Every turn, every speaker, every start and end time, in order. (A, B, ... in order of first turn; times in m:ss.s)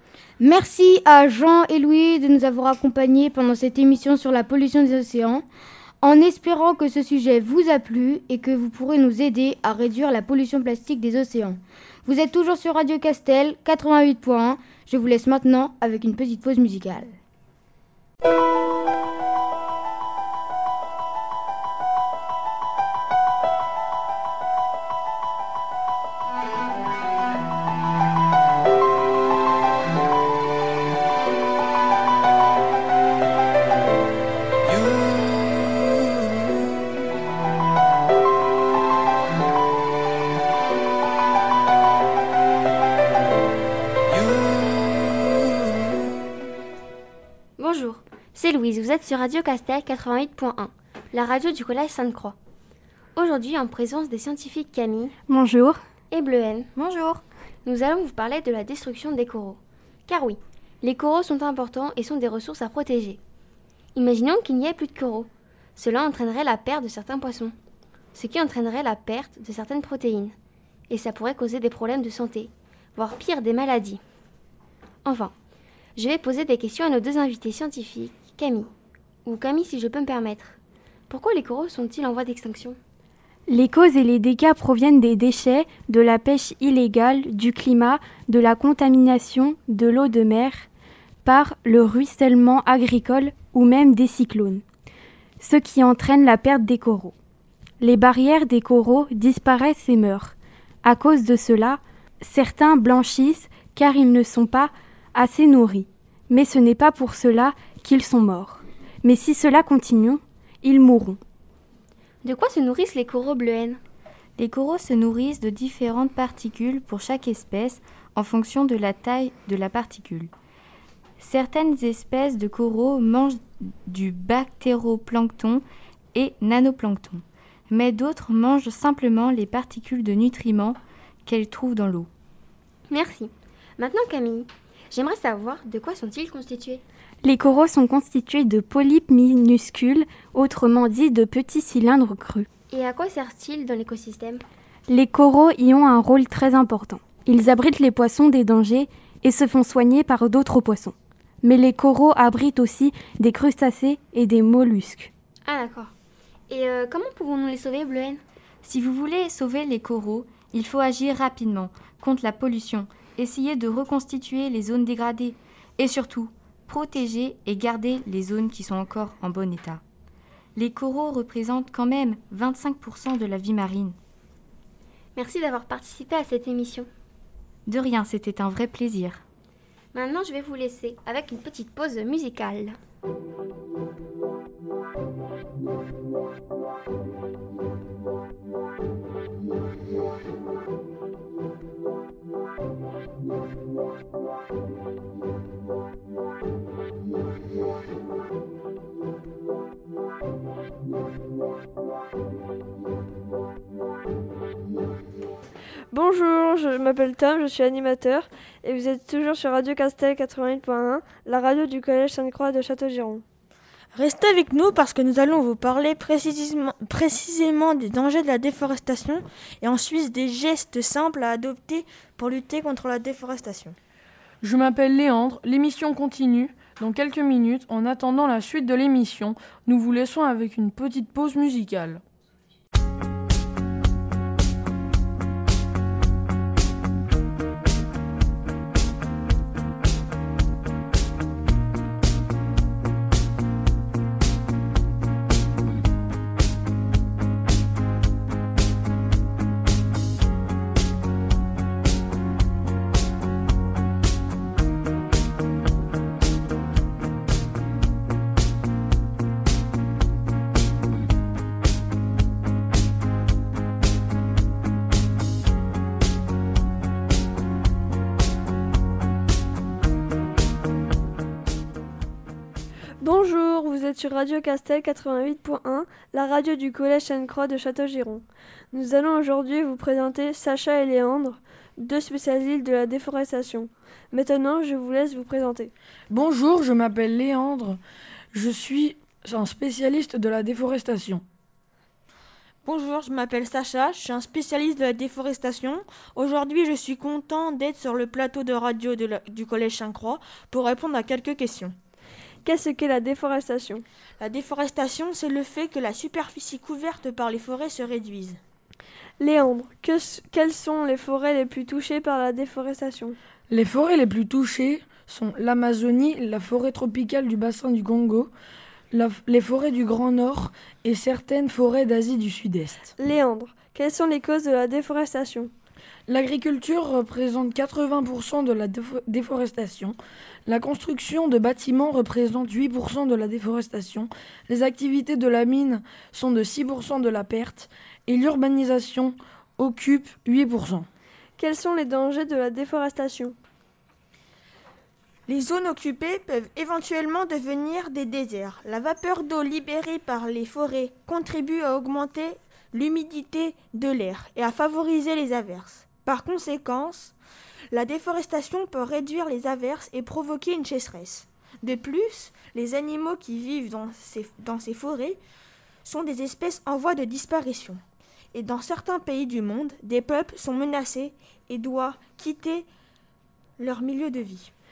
0:00.4-0:05.4 A
0:06.0-0:17.2 A
0:47.6-0:52.4 B
0:53.2-0:55.2 B
0:55.3-0:55.8 C
0:56.1-0:56.7 B
0:57.6-1:03.2 B
1:04.0-1:07.5 B
1:08.2-1:10.4 B
1:10.9-1:14.0 B
1:15.0-1:15.3 B
1:16.0-1:18.7 B
1:19.3-1:20.6 B
1:21.1-1:22.8 B
1:23.5-1:30.7 C
1:31.2-1:34.6 C
1:35.4-1:37.2 C
1:37.8-1:51.2 C
1:52.2-1:53.8 B
1:54.4-2:00.3 D
2:01.2-2:12.1 D
2:12.9-2:16.8 B
2:17.2-2:22.5 C
2:22.7-2:24.4 B
2:24.9-2:35.1 C
2:35.4-2:35.9 B
2:36.5-2:38.2 B
2:38.6-2:49.8 D
2:50.6-2:54.0 D
2:55.2-2:56.9 B
2:57.7-2:59.2 D
2:59.9-3:02.8 B
3:25.9-3:33.2 E
3:34.0-3:43.8 F
3:44.4-3:52.0 G
4:33.0-4:45.7 E
4:46.1-4:47.8 G
4:48.3-4:51.2 G
4:52.6-5:01.7 F
5:02.4-5:03.8 E
5:04.2-5:08.4 F
5:09.2-5:13.2 E
5:13.5-5:18.3 G
5:18.9-5:22.9 G
5:23.0-5:25.5 E
5:26.1-5:40.9 G
5:41.4-5:43.4 E
5:45.3-5:57.1 F
5:57.7-6:05.2 F
6:05.8-6:07.8 F
6:08.3-6:12.7 F
6:13.6-6:14.5 F